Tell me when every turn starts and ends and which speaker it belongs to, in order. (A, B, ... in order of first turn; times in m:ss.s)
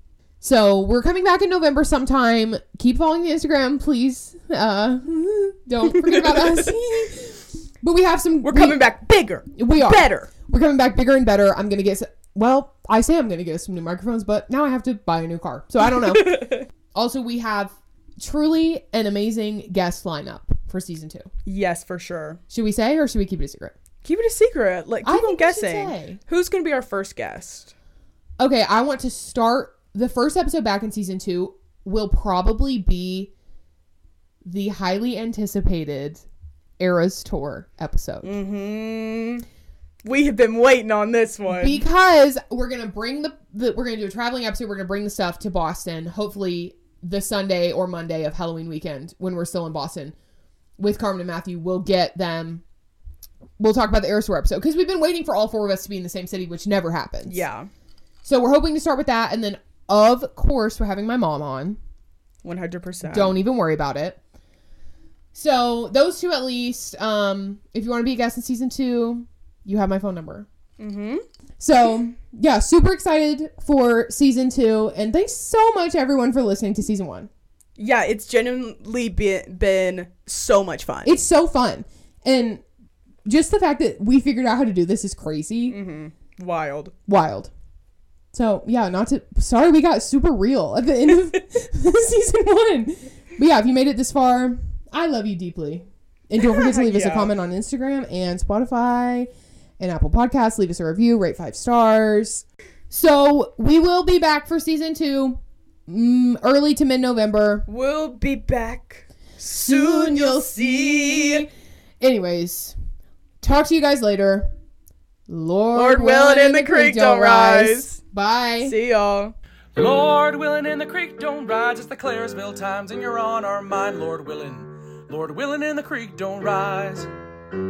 0:00.4-0:08.8 A
0:05.9-0:06.3 B
0:08.4-0:10.3 B
0:09.5-0:21.3 A
0:15.8-0:16.6 B
0:21.4-0:22.4 B
0:22.5-0:23.7 A
0:24.0-0:27.7 B
0:25.0-0:26.2 A
0:28.4-0:33.3 A
0:34.4-0:36.2 A
0:36.8-0:38.3 A
0:38.2-0:39.4 B
0:40.0-0:41.8 B
0:41.6-0:50.1 A
0:50.8-0:52.6 A
0:53.6-0:57.4 A
0:57.2-0:57.7 B
0:58.2-1:01.8 A
1:02.4-1:03.4 B
1:03.1-1:04.2 A
1:05.3-1:10.5 A
1:10.8-1:11.2 B
1:11.6-1:17.3 A
1:17.8-1:21.1 B
1:21.0-1:22.6 A
1:23.2-1:25.8 A
1:25.7-1:26.9 B
1:27.1-1:27.5 A
1:28.3-1:47.6 A
1:36.4-1:37.3 B
1:47.7-1:51.4 B
1:49.5-1:51.5 A
1:52.0-1:52.7 A
1:53.4-1:54.5 A
1:55.3-1:58.7 A
1:55.7-1:58.0 B
1:58.6-1:59.3 B
1:59.7-2:07.1 C